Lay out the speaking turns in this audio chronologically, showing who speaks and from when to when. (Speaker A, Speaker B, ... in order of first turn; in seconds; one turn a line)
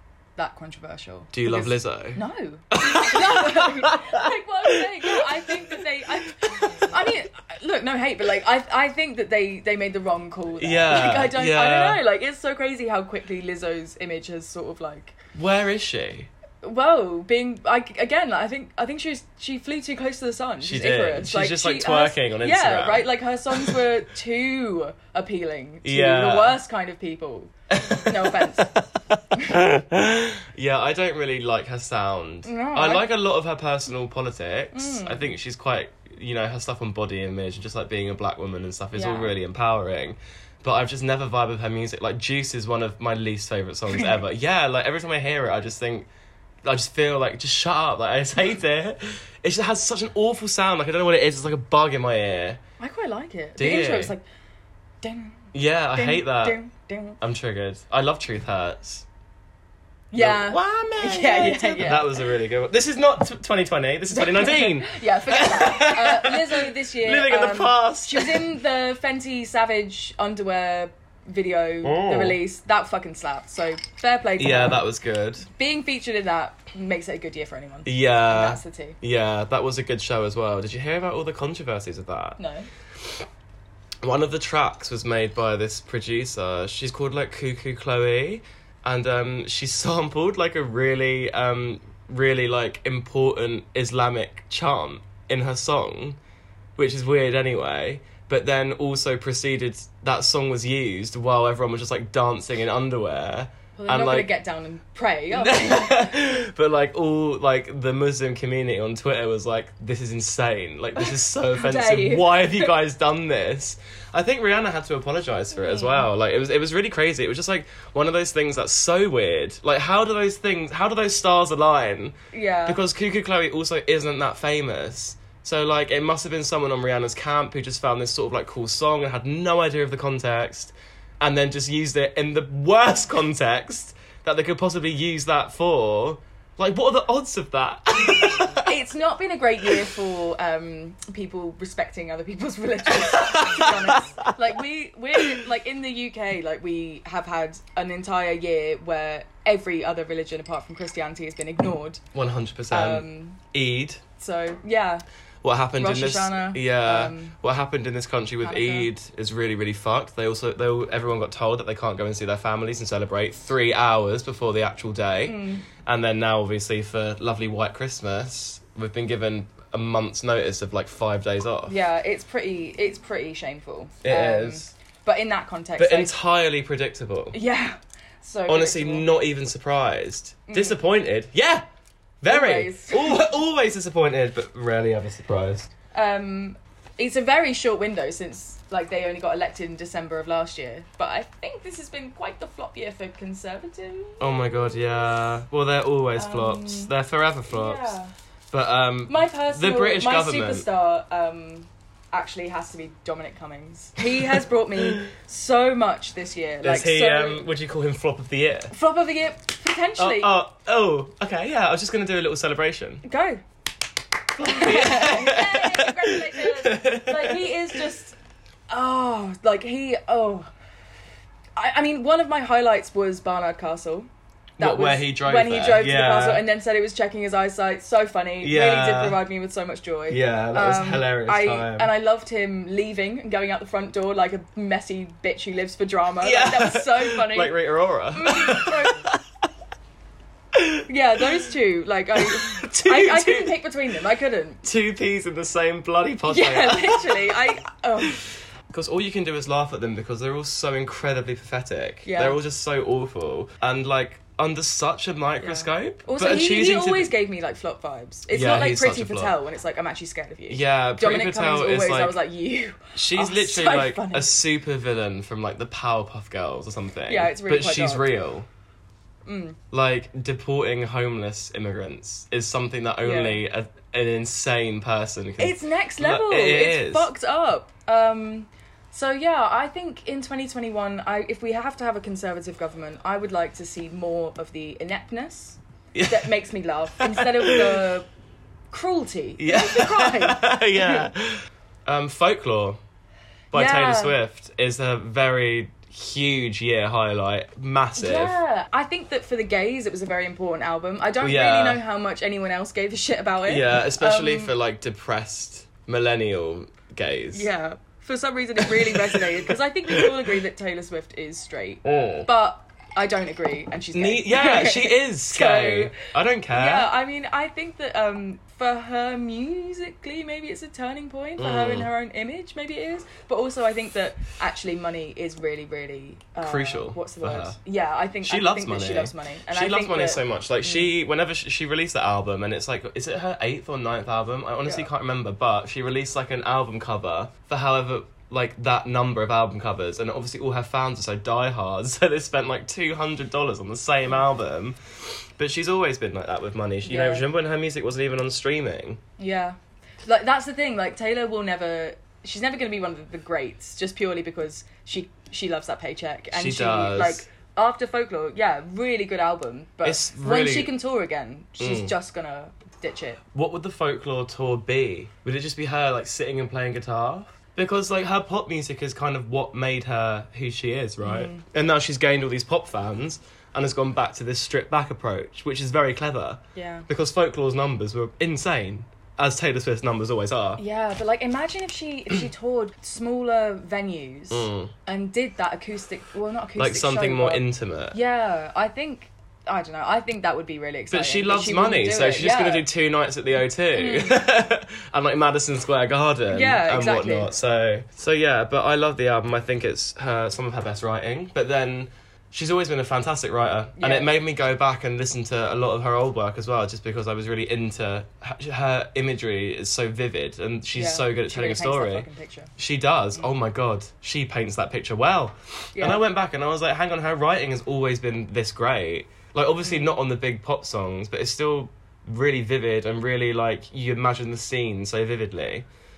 Speaker A: 0.3-15.2
Speaker B: 1.3-6.9
Speaker B: 10.6-12.0
Speaker B: 15.3-16.3
Speaker A: 16.6-28.7
Speaker B: 20.6-23.8
Speaker B: 25.8-26.6
Speaker B: 27.7-46.1
Speaker A: 29.3-29.6
Speaker A: 32.4-33.1
Speaker A: 34.7-35.3
Speaker A: 38.9-39.3
Speaker B: 46.6-52.6
Speaker A: 52.8-54.2
Speaker B: 53.6-54.1
Speaker A: 55.0-57.2
Speaker B: 55.5-56.6
Speaker B: 57.2-59.0
Speaker A: 60.1-62.3
Speaker B: 60.1-68.5
Speaker A: 64.1-74.8
Speaker B: 71.8-72.4
Speaker B: 74.4-75.5
Speaker A: 75.5-79.0
Speaker B: 77.8-82.4
Speaker A: 82.4-82.7
Speaker B: 84.0-96.2
Speaker B: 96.8-104.3
Speaker A: 103.8-106.1
Speaker B: 105.3-122.1
Speaker A: 111.0-112.7
Speaker A: 115.5-116.1
Speaker A: 122.3-122.8
Speaker B: 122.7-138.7
Speaker A: 138.6-152.0
Speaker B: 143.0-144.3
Speaker B: 152.1-154.0
Speaker A: 152.7-153.4
Speaker A: 154.2-155.0
Speaker B: 155.4-171.7
Speaker A: 155.8-157.3
Speaker A: 158.4-158.9
Speaker A: 165.2-165.6
Speaker A: 171.7-176.1
Speaker B: 174.0-174.7
Speaker B: 175.8-177.3
Speaker A: 177.3-179.1
Speaker B: 178.5-181.6
Speaker A: 180.5-180.8
Speaker B: 182.2-185.7
Speaker A: 182.3-183.3
Speaker A: 185.9-194.8
Speaker B: 194.2-197.9
Speaker A: 196.2-196.9
Speaker A: 197.5-198.1
Speaker B: 198.5-200.7
Speaker A: 199.1-207.5
Speaker B: 204.8-205.1
Speaker B: 206.6-208.7
Speaker A: 208.7-210.3
Speaker B: 210.0-213.0
Speaker A: 213.0-213.4
Speaker B: 214.3-217.8
Speaker A: 214.4-218.1
Speaker A: 218.7-220.5
Speaker A: 221.6-237.6
Speaker B: 224.6-226.4
Speaker B: 228.4-229.2
Speaker B: 230.1-231.9
Speaker B: 236.2-239.2
Speaker A: 238.1-239.1
Speaker B: 240.5-240.8
Speaker A: 240.9-244.6
Speaker B: 242.2-243.6
Speaker B: 244.6-247.3
Speaker A: 246.3-248.2
Speaker B: 248.1-257.1
Speaker A: 252.0-252.4
Speaker A: 255.4-264.4
Speaker B: 258.3-259.4
Speaker B: 260.5-262.2
Speaker B: 262.9-268.4
Speaker A: 267.1-268.1
Speaker A: 269.2-269.6
Speaker B: 269.7-277.1
Speaker A: 273.0-273.4
Speaker A: 275.4-288.1
Speaker B: 285.9-286.3
Speaker B: 287.0-287.8
Speaker A: 288.7-291.1
Speaker B: 289.4-292.8
Speaker A: 293.5-294.1
Speaker B: 293.5-298.4
Speaker A: 297.9-304.5
Speaker B: 301.2-301.8
Speaker B: 303.4-307.5
Speaker A: 307.3-315.9
Speaker B: 308.6-310.1
Speaker B: 311.8-312.3
Speaker B: 313.9-316.9
Speaker A: 316.5-330.9
Speaker B: 321.4-321.9
Speaker B: 326.4-327.6
Speaker B: 328.2-349.0
Speaker A: 346.8-347.2
Speaker A: 349.2-363.2
Speaker B: 356.3-357.2
Speaker B: 359.8-360.7
Speaker B: 361.6-361.9
Speaker B: 363.3-380.6
Speaker A: 371.0-371.4
Speaker A: 376.5-376.9
Speaker A: 380.6-392.7
Speaker B: 384.3-384.7
Speaker B: 386.6-388.0
Speaker B: 390.9-412.1
Speaker A: 393.7-394.2
Speaker A: 396.3-397.3
Speaker A: 403.8-404.1
Speaker A: 410.7-412.5
Speaker B: 412.6-425.6
Speaker A: 415.8-416.0
Speaker A: 419.6-419.9